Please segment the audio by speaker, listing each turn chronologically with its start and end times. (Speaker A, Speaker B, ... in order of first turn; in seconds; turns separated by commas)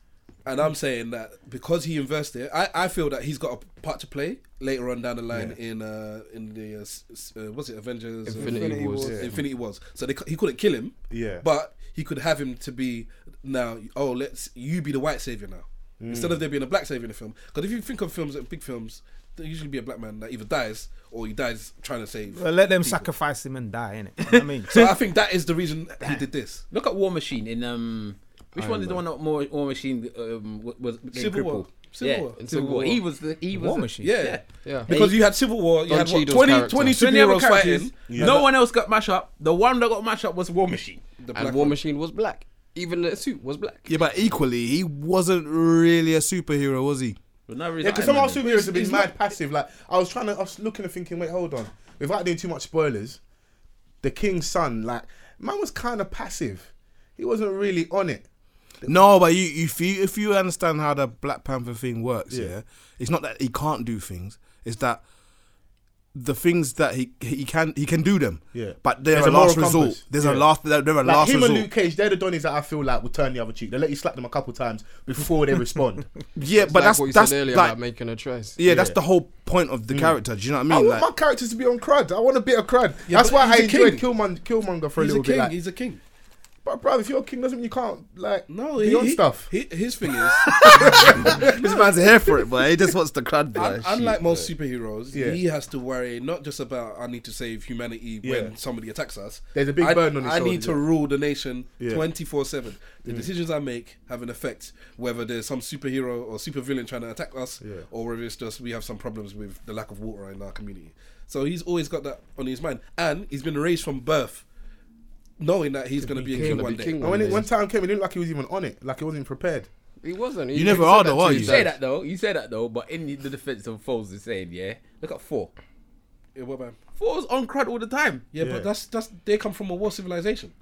Speaker A: 0.5-23.1, Speaker B: 5.3-5.6, Speaker B: 8.3-9.3, Speaker C: 8.3-9.4, Speaker B: 11.1-11.5, Speaker B: 16.0-16.4, Speaker D: 22.3-24.9, Speaker A: 24.7-26.6, Speaker E: 26.7-35.2, Speaker C: 28.6-29.0, Speaker A: 31.1-32.4, Speaker C: 32.4-33.0, Speaker D: 33.5-34.1, Speaker A: 34.0-38.2, Speaker C: 34.6-34.9, Speaker C: 35.9-37.0, Speaker E: 37.0-41.0, Speaker B: 38.1-38.5, Speaker A: 41.2-41.8, Speaker C: 41.3-43.9, Speaker F: 43.9-47.2, Speaker E: 47.5-48.4, Speaker B: 47.8-53.2, Speaker A: 48.4-49.1, Speaker B: 54.0-58.3, Speaker F: 58.9-65.0, Speaker F: 66.1-71.7, Speaker B: 68.5-70.5, Speaker B: 71.0-76.1, Speaker F: 76.4-77.8, Speaker C: 76.4-78.9, Speaker F: 78.6-81.0, Speaker B: 78.7-79.0, Speaker B: 79.9-80.2, Speaker B: 80.7-85.5, Speaker A: 83.1-84.0, Speaker A: 85.0-86.0, Speaker B: 86.7-89.5, Speaker A: 88.5-92.3, Speaker F: 90.6-94.2, Speaker B: 90.7-91.4, Speaker A: 93.5-114.5, Speaker B: 95.1-95.4, Speaker B: 98.2-98.5, Speaker B: 99.5-100.8, Speaker B: 107.6-107.9, Speaker A: 115.4-117.0, Speaker C: 116.0-117.5, Speaker B: 117.0-119.7, Speaker C: 120.0-121.7, Speaker F: 120.5-121.7, Speaker E: 121.3-125.5, Speaker A: 126.4-126.8, Speaker E: 127.0-128.3, Speaker A: 128.3-130.5, Speaker B: 128.4-128.7